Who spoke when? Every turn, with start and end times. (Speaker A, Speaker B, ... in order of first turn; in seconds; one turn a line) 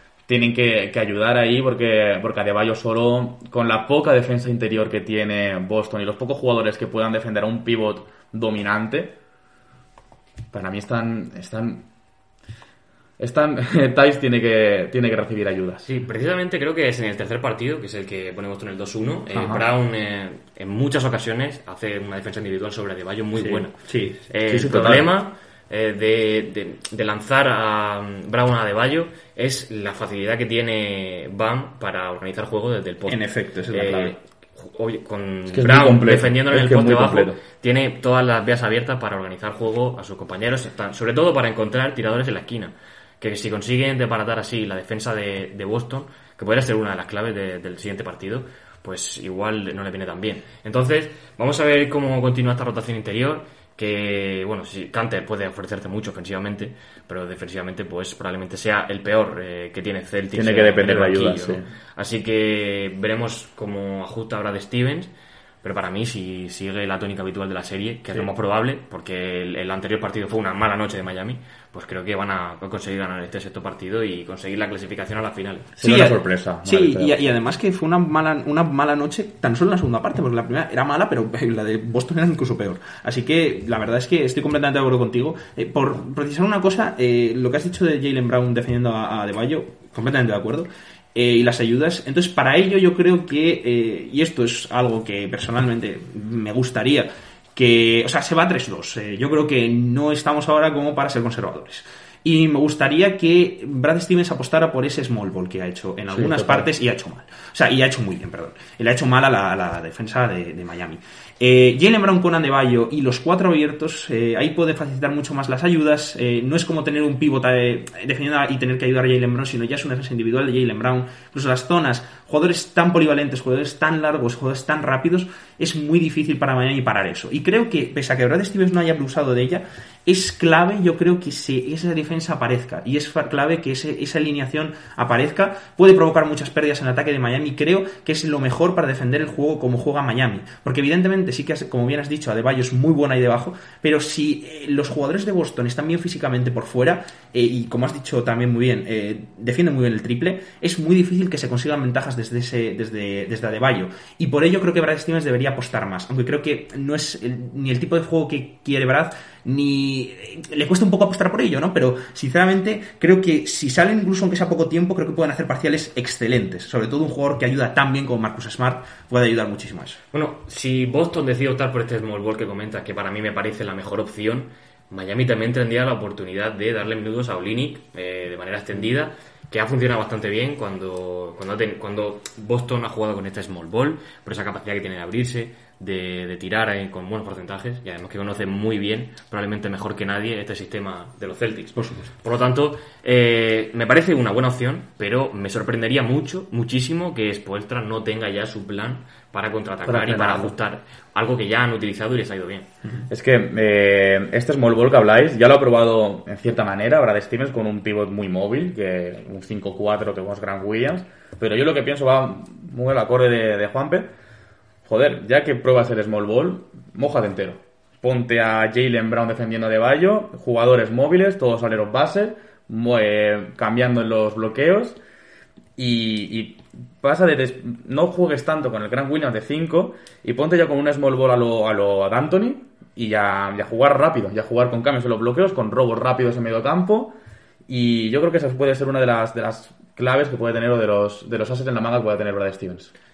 Speaker A: 0.3-9.1
Speaker A: 10.5-11.8
Speaker A: 13.2-15.9
Speaker B: 15.8-23.8
Speaker A: 19.3-19.7
Speaker C: 23.4-24.2
Speaker B: 24.3-65.1
Speaker A: 24.5-25.1
Speaker C: 33.1-34.1
Speaker A: 35.5-37.4
Speaker A: 60.3-61.7
Speaker B: 65.6-75.7
Speaker A: 75.8-77.2
Speaker C: 75.8-170.0
Speaker A: 106.1-106.7
Speaker B: 170.1-202.7
Speaker C: 191.8-192.1
Speaker A: 199.9-200.5
Speaker A: 203.1-214.1
Speaker A: 214.8-225.0
Speaker A: 225.8-237.1
Speaker A: 237.7-242.9